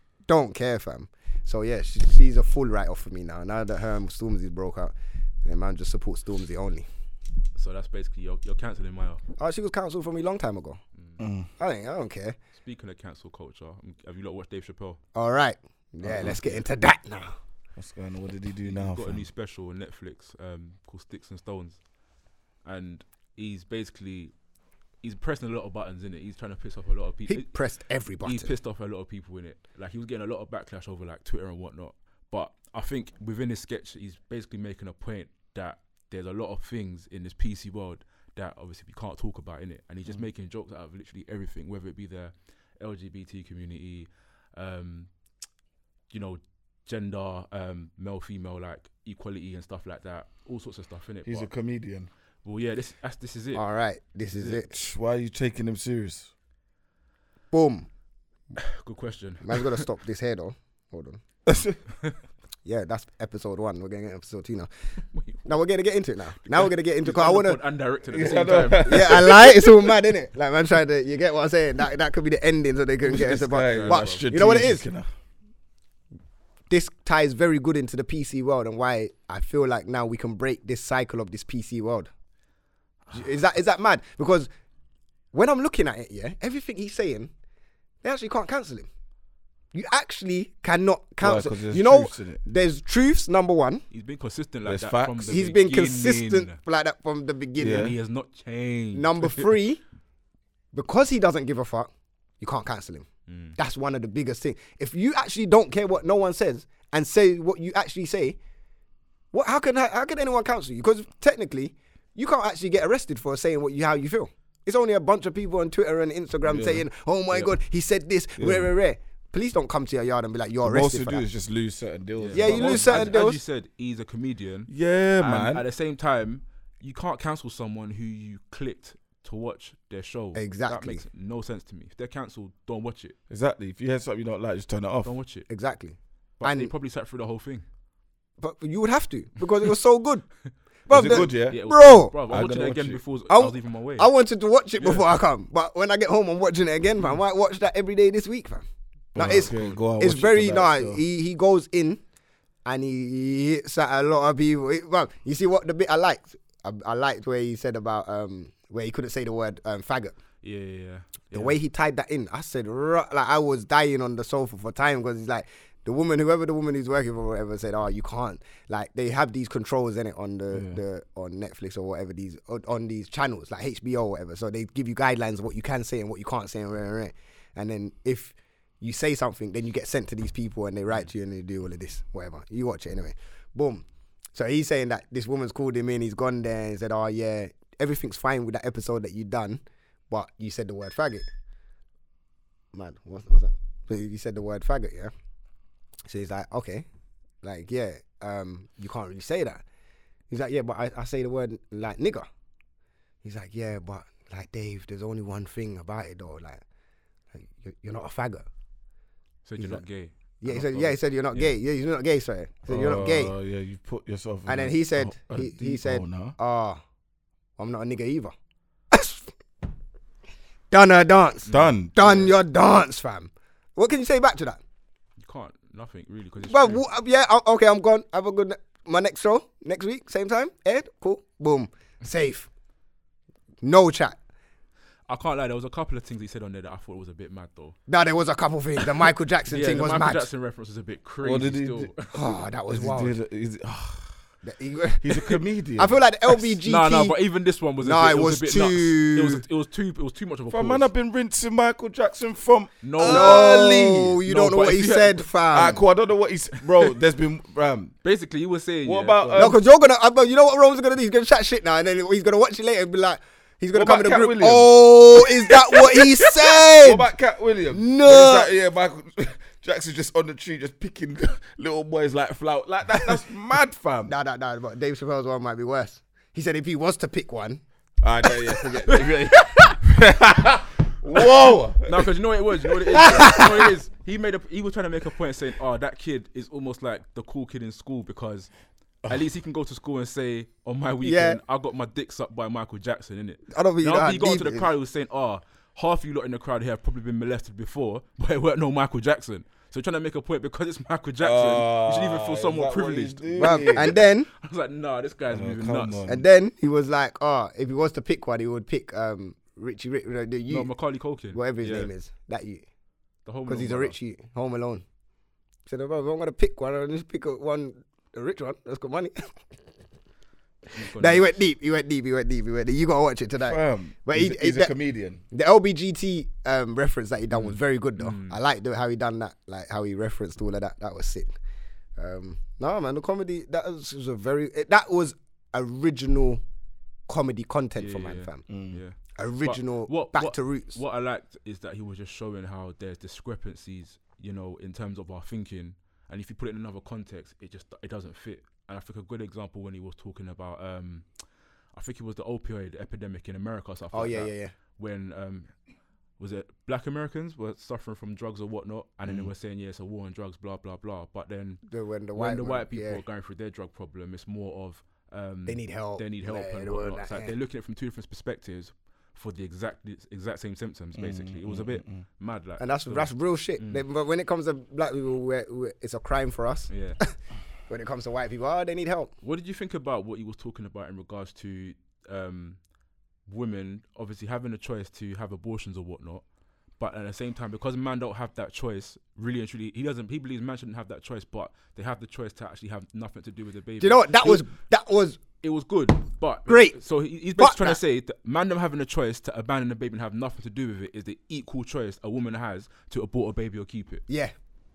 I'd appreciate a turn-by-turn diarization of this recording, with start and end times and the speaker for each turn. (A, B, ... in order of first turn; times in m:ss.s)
0:00.3-0:06.9 A
0:07.6-0:09.2 B
0:09.4-0:10.8 A
0:11.2-0:11.5 C
0:11.6-0:12.4 A
0:12.6-0:15.0 B
0:15.2-0:17.4 A
0:16.0-0:16.4 C
0:16.2-0:16.6 B
0:17.8-0:19.3 C
0:18.7-0:21.8 B
0:22.6-0:24.3 B
0:25.0-0:27.5 B
0:27.3-0:28.5 A
0:28.2-0:45.1 B
0:46.1-0:51.5 B
0:51.3-0:52.1 C
0:52.4-0:53.6 B
0:53.5-0:54.7 A
0:54.6-0:56.3 C
0:57.5-0:57.9 A
0:58.6-0:59.9 B
0:59.4-1:01.2 A
1:01.5-1:01.8 C
1:02.6-1:04.7 A
1:05.0-1:05.5 B
1:05.5-1:07.6 A
1:06.6-1:09.3 B
1:08.1-1:09.7 C
1:08.8-1:14.8 A
1:13.0-1:15.1 C
1:13.6-1:14.3 B
1:16.7-1:22.1 A
1:23.1-1:24.5 A
1:25.3-1:27.3 A
1:28.0-1:28.9 A
1:29.7-1:33.8 A
1:31.2-1:32.4 C
1:33.9-1:36.6 B
1:34.7-1:35.4 C
1:35.3-1:37.9 A
1:37.6-1:38.0 C
1:37.6-1:39.5 B
1:38.9-1:39.8 A
1:40.7-1:48.4 A
1:43.3-1:43.6 B
1:49.3-2:01.2 A
1:56.4-1:56.8 C
1:58.4-1:58.7 C
2:00.6-2:03.1 C
2:02.2-2:13.2 B
2:02.3-2:03.4 A
2:04.7-2:05.6 C
2:10.4-2:11.0 A
2:13.3-2:15.2 C
2:15.0-2:15.5 B
2:15.5-2:16.7 A
2:16.4-2:17.6 B
2:18.4-2:20.3 A
2:20.9-2:22.2 A
2:20.9-2:21.6 C
2:21.0-2:24.1 B
2:22.3-2:23.0 C
2:23.3-2:32.0 A
2:24.8-2:25.0 B
2:29.2-2:31.0 C
2:29.2-2:29.8 B
2:32.6-2:40.2 A
2:40.4-2:41.6 B
2:41.3-3:11.3 A
2:50.5-2:50.8 C
3:12.7-3:15.1 A
3:16.1-3:16.9 A
3:17.4-3:19.6 A
3:20.3-3:22.3 A
3:23.2-3:26.6 A
3:27.3-3:28.5 A
3:29.5-3:31.5 B
3:30.4-3:33.3 A
3:32.7-3:36.4 C
3:34.5-3:36.8 A
3:37.6-3:38.3 A
3:38.9-3:39.3 A
3:40.7-3:44.6 A
3:41.5-3:42.3 B
3:41.5-3:42.0 C
3:45.2-3:46.8 B
3:46.5-3:52.5 A
3:53.6-3:54.2 A
3:55.1-3:57.8 B
3:57.9-4:00.3 A
3:59.5-4:02.2 B
4:01.2-4:01.9 C
4:02.1-4:03.2 A
4:02.7-4:04.1 C
4:04.4-4:07.2 A
4:05.0-4:05.9 C
4:06.6-4:10.9 B
4:07.8-4:09.4 A
4:10.5-4:14.2 C
4:12.8-4:13.5 B
4:13.0-4:15.8 A
4:14.3-4:15.3 B
4:15.5-4:18.0 C
4:18.0-4:19.6 B
4:18.8-4:19.6 C
4:19.4-4:27.1 A
4:23.7-4:34.1 C
4:27.7-4:28.5 A
4:34.1-4:37.6 A
4:38.0-4:42.1 C
4:38.9-4:39.8 B
4:41.8-4:48.5 B
4:42.9-4:43.7 A
4:49.1-5:06.0 B
4:51.0-4:51.4 A
4:53.5-4:54.7 A
5:01.2-5:04.0 C
5:03.4-5:04.3 A
5:05.3-5:06.2 C
5:06.0-5:10.7 A
5:10.5-5:11.9 B
5:11.3-5:12.6 A
5:13.3-5:14.0 B
5:13.5-5:14.8 A
5:15.7-5:19.4 A
5:20.7-5:21.4 B
5:20.8-5:24.7 A
5:23.4-5:25.2 C
5:25.3-5:31.3 A
5:27.3-5:28.4 B
5:32.0-5:36.4 A
5:37.1-5:38.4 A
5:37.8-5:51.1 B
5:38.5-5:38.8 C
5:39.2-5:40.8 A
5:51.7-5:55.5 B
5:53.9-5:54.5 A
5:56.2-6:01.6 B
5:59.1-5:59.3 C
6:01.7-6:03.0 A
6:02.2-6:13.8 B
6:05.5-6:07.4 A
6:11.0-6:12.1 C
6:12.6-6:17.2 A
6:16.7-6:17.0 B
6:17.7-6:19.1 A
6:19.2-6:22.6 B
6:23.3-6:26.2 B
6:26.8-6:34.5 B
6:33.8-6:35.2 A
6:35.4-6:44.0 B
6:36.5-6:36.8 A
6:37.4-6:37.8 A
6:44.1-6:44.3 A